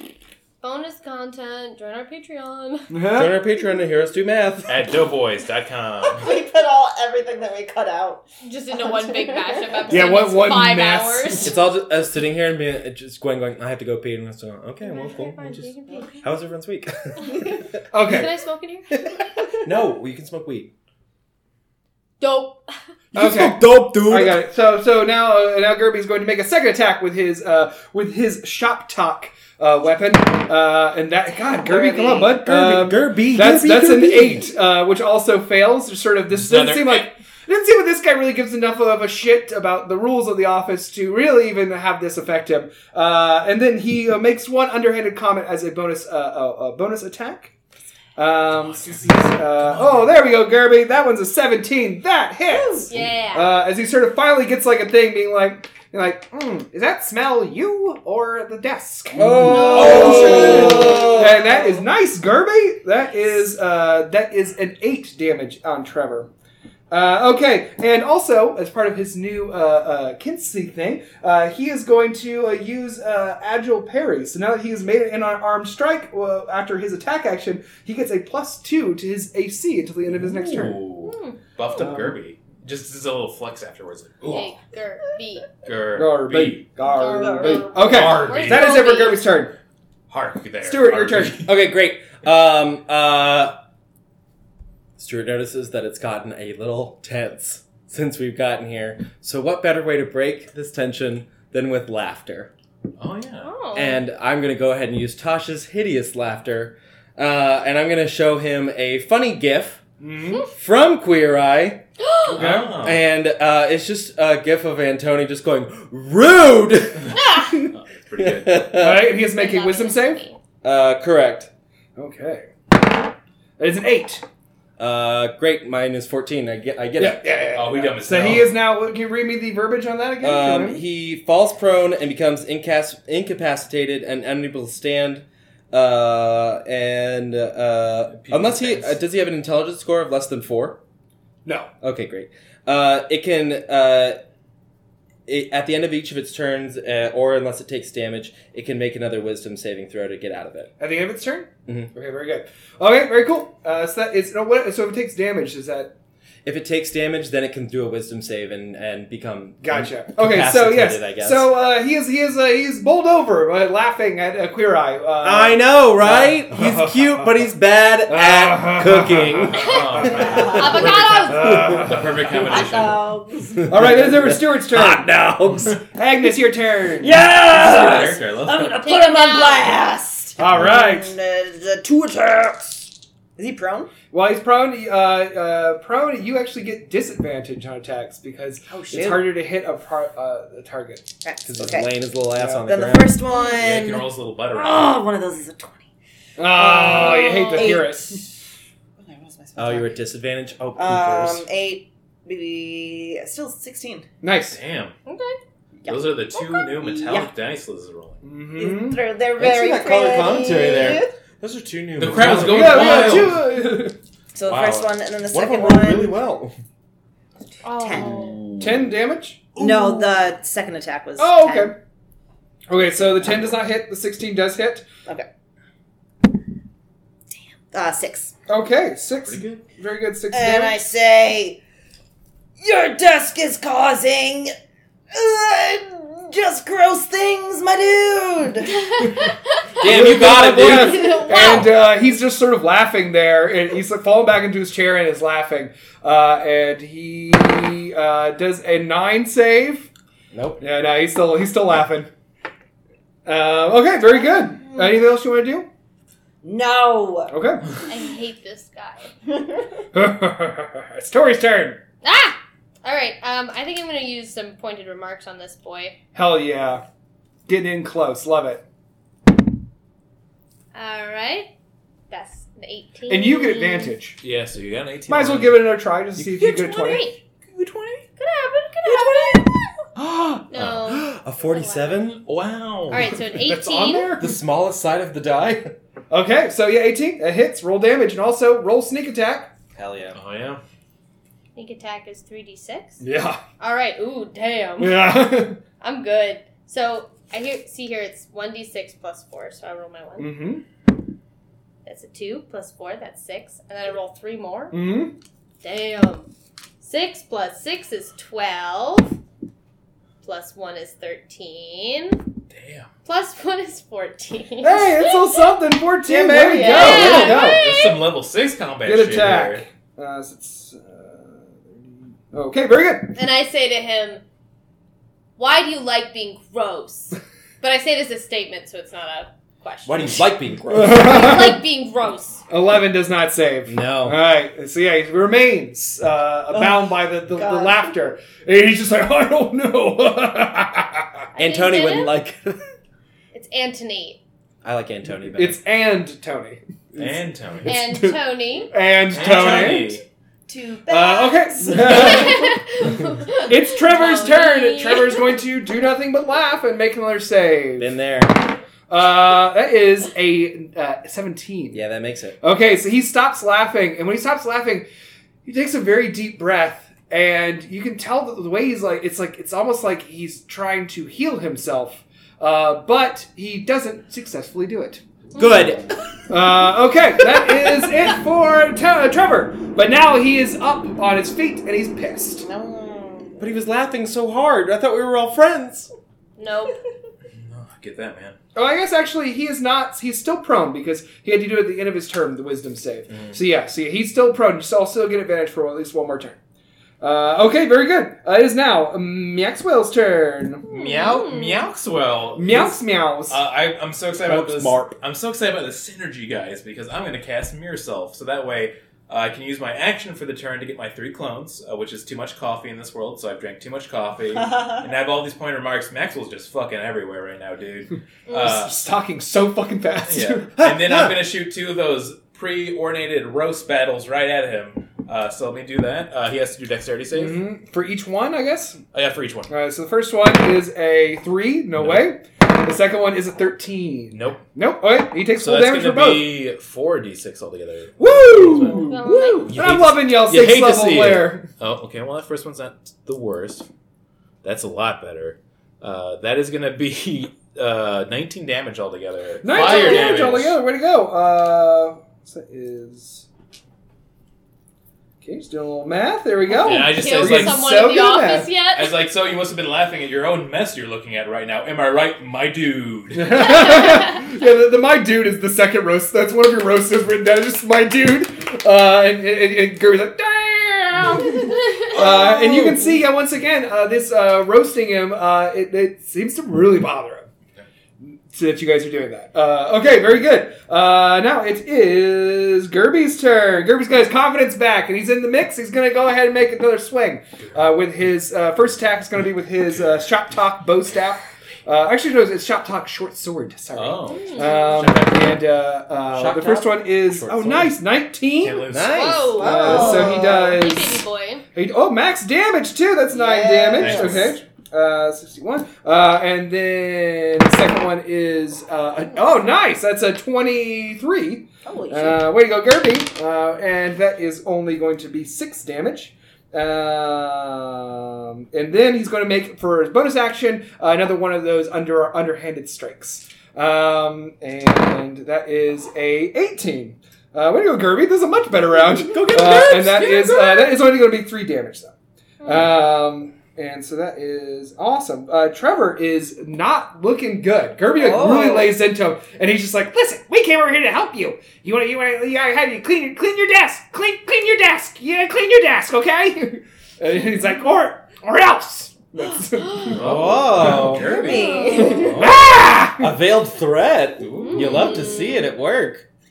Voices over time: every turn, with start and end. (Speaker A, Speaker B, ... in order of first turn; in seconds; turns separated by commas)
Speaker A: 0.6-2.9, Speaker B: 2.9-3.4, Speaker C: 3.1-4.8, Speaker D: 4.7-6.3, Speaker E: 6.1-8.2, Speaker A: 8.4-11.6, Speaker E: 8.9-10.1, Speaker B: 9.9-11.5, Speaker C: 11.4-17.6, Speaker A: 14.8-16.1, Speaker E: 15.9-16.2, Speaker B: 17.9-18.3, Speaker A: 18.0-19.0, Speaker C: 19.6-20.7, Speaker A: 22.2-22.6, Speaker B: 23.1-47.5, Speaker C: 23.1-24.4, Speaker E: 31.6-32.4, Speaker C: 32.3-34.5, Speaker D: 36.3-37.1, Speaker B: 48.1-66.3, Speaker D: 48.5-50.2, Speaker E: 52.5-52.9, Speaker A: 52.9-53.5, Speaker C: 59.1-61.4, Speaker E: 59.2-61.8, Speaker A: 59.5-60.5, Speaker B: 66.9-80.8, Speaker D: 80.0-84.5, Speaker A: 81.0-81.4, Speaker B: 81.7-82.2, Speaker A: 84.3-85.5, Speaker D: 85.6-86.6, Speaker B: 85.9-89.5, Speaker A: 86.9-89.3, Speaker E: 86.9-88.1, Speaker D: 87.8-88.8, Speaker D: 90.1-91.5, Speaker B: 90.6-91.4, Speaker C: 91.4-93.5, Speaker C: 95.0-102.5, Speaker D: 103.0-103.5, Speaker A: 103.4-104.0, Speaker C: 103.7-109.8, Speaker B: 110.0-110.4, Speaker C: 110.5-111.8, Speaker A: 112.0-112.3, Speaker D: 112.3-113.0, Speaker B: 112.3-112.7, Speaker C: 112.8-117.7, Speaker A: 117.1-117.5, Speaker D: 117.7-118.7, Speaker C: 118.2-119.2, Speaker B: 118.7-120.2, Speaker A: 119.2-120.4, Speaker C: 120.6-121.5, Speaker B: 122.0-122.5, Speaker B: 123.6-124.2, Speaker C: 124.8-127.3, Speaker B: 127.0-130.8, Speaker D: 127.5-128.6, Speaker C: 130.2-140.8, Speaker D: 138.1-139.0, Speaker B: 141.4-141.7, Speaker C: 141.8-144.2, Speaker C: 145.3-150.7, Speaker B: 150.8-155.9, Speaker C: 156.4-161.5, Speaker B: 159.6-167.3, Speaker C: 165.2-170.6, Speaker B: 168.1-170.3, Speaker D: 169.4-173.1, Speaker A: 169.5-171.5, Speaker E: 170.0-171.0, Speaker B: 171.2-172.4, Speaker C: 171.4-172.0, Speaker E: 172.3-173.7, Speaker B: 173.6-177.2, Speaker C: 173.7-175.8, Speaker E: 177.0-183.9, Speaker D: 177.3-178.8, Speaker A: 178.8-179.8, Speaker B: 180.4-181.2, Speaker B: 184.1-191.1, Speaker E: 188.7-189.3, Speaker E: 191.2-191.9, Speaker C: 191.4-193.2, Speaker B: 192.3-192.7, Speaker E: 192.7-195.8, Speaker A: 193.3-193.6, Speaker D: 193.4-195.0, Speaker B: 196.4-198.2, Speaker E: 196.5-198.3, Speaker A: 196.9-197.8, Speaker E: 199.0-199.9, Speaker C: 199.6-201.4, Speaker E: 200.8-204.1, Speaker B: 204.2-204.6, Speaker D: 204.5-204.9, Speaker A: 205.1-205.4, Speaker E: 205.8-207.3, Speaker D: 205.8-208.2, Speaker B: 208.2-209.1, Speaker E: 208.5-211.1, Speaker C: 209.4-213.4, Speaker D: 212.0-213.4, Speaker B: 212.2-213.9, Speaker E: 214.3-216.2, Speaker C: 214.5-216.5, Speaker A: 217.6-218.4, Speaker E: 217.7-218.5, Speaker D: 218.1-218.9, Speaker B: 218.6-219.6, Speaker E: 219.5-221.7, Speaker B: 221.2-221.7, Speaker B: 222.7-224.9, Speaker E: 227.3-228.3, Speaker B: 228.5-230.8, Speaker D: 229.2-229.6, Speaker E: 230.3-231.6, Speaker E: 232.6-234.5, Speaker E: 235.1-238.7, Speaker A: 238.7-239.7, Speaker C: 239.8-241.1, Speaker B: 239.8-249.9, Speaker D: 239.8-240.7, Speaker E: 240.7-241.7, Speaker A: 241.3-241.7, Speaker D: 241.3-241.7, Speaker C: 250.3-250.6, Speaker B: 250.6-252.1, Speaker B: 253.2-255.7, Speaker E: 254.2-255.0, Speaker E: 256.4-257.4, Speaker B: 257.3-257.6, Speaker A: 257.9-259.1, Speaker E: 259.3-259.8, Speaker B: 259.9-261.8, Speaker A: 262.0-266.0, Speaker B: 266.1-266.8, Speaker B: 267.5-268.6, Speaker A: 270.7-271.5, Speaker A: 272.1-273.9, Speaker B: 273.1-274.2, Speaker D: 274.2-275.8, Speaker B: 275.1-277.1, Speaker A: 276.2-277.2, Speaker B: 277.7-278.0, Speaker A: 278.2-279.6, Speaker B: 278.9-279.6, Speaker C: 280.0-282.2, Speaker A: 280.5-282.2, Speaker D: 280.6-280.8, Speaker D: 282.2-283.2, Speaker A: 282.9-284.2, Speaker B: 283.3-284.4, Speaker C: 284.2-285.7, Speaker B: 286.1-289.5, Speaker C: 289.7-290.2, Speaker D: 290.1-290.6, Speaker A: 291.6-293.0, Speaker B: 293.0-293.4, Speaker A: 293.6-295.1, Speaker B: 294.8-295.6, Speaker A: 295.8-300.3, Speaker B: 300.2-300.6, Speaker A: 301.8-304.8, Speaker B: 304.7-305.1, Speaker A: 305.6-306.3, Speaker A: 306.8-309.2, Speaker A: 310.2-312.2, Speaker D: 312.5-312.9, Speaker A: 313.1-315.5, Speaker B: 314.6-317.8, Speaker E: 316.0-317.5, Speaker A: 316.6-318.0, Speaker D: 317.2-319.6, Speaker B: 318.8-323.2, Speaker A: 323.1-324.2, Speaker A: 325.4-330.2, Speaker C: 329.9-331.5, Speaker B: 330.7-331.6, Speaker A: 330.8-332.4, Speaker B: 332.5-341.2, Speaker C: 333.6-334.2, Speaker E: 336.5-337.9, Speaker A: 341.3-342.1, Speaker C: 341.4-342.6, Speaker A: 343.3-344.2, Speaker C: 344.6-345.6, Speaker B: 345.3-347.1, Speaker D: 346.9-347.7, Speaker B: 347.6-348.2, Speaker A: 347.6-348.7, Speaker B: 348.7-350.0, Speaker D: 349.1-350.0, Speaker E: 350.5-352.3, Speaker B: 350.9-357.9, Speaker A: 351.7-355.4, Speaker C: 357.8-358.4, Speaker B: 358.9-361.8, Speaker C: 361.7-362.4, Speaker B: 362.4-364.9, Speaker B: 365.4-375.0, Speaker A: 375.3-375.7, Speaker C: 375.4-375.9, Speaker B: 376.3-382.5, Speaker E: 382.4-383.4, Speaker C: 383.4-385.9, Speaker A: 386.4-386.8, Speaker D: 387.3-388.4, Speaker B: 388.5-396.4, Speaker B: 397.0-400.7, Speaker A: 400.7-401.6, Speaker D: 400.7-418.8, Speaker B: 402.3-403.4, Speaker C: 404.2-404.9, Speaker E: 414.4-414.8, Speaker B: 418.3-420.5, Speaker D: 420.0-427.4, Speaker C: 420.6-421.2, Speaker B: 427.1-428.8, Speaker D: 428.9-429.5, Speaker B: 429.5-436.2, Speaker D: 431.7-432.1, Speaker D: 434.1-434.4, Speaker D: 435.3-443.6, Speaker B: 438.0-441.4, Speaker A: 438.7-439.5, Speaker D: 444.4-450.6, Speaker B: 449.4-453.2, Speaker A: 449.5-450.4, Speaker B: 455.2-458.5, Speaker A: 456.5-459.0, Speaker D: 456.6-457.8, Speaker D: 458.7-463.6, Speaker B: 463.1-477.3, Speaker A: 463.4-464.2, Speaker A: 471.3-471.9, Speaker B: 478.0-498.7, Speaker D: 487.4-487.7, Speaker D: 493.7-495.3, Speaker A: 494.1-494.8, Speaker C: 496.1-497.7, Speaker D: 498.4-499.2, Speaker C: 498.7-500.2, Speaker A: 498.9-501.4, Speaker B: 499.4-550.8, Speaker E: 499.4-500.6, Speaker E: 503.1-504.3, Speaker D: 503.7-504.4, Speaker E: 511.6-512.3, Speaker C: 529.1-530.7, Speaker E: 537.9-538.7, Speaker D: 549.9-552.4, Speaker C: 550.0-551.1, Speaker E: 550.8-552.2, Speaker A: 551.1-552.0, Speaker B: 552.0-553.1, Speaker C: 553.0-556.1, Speaker D: 554.2-554.9, Speaker A: 554.4-555.5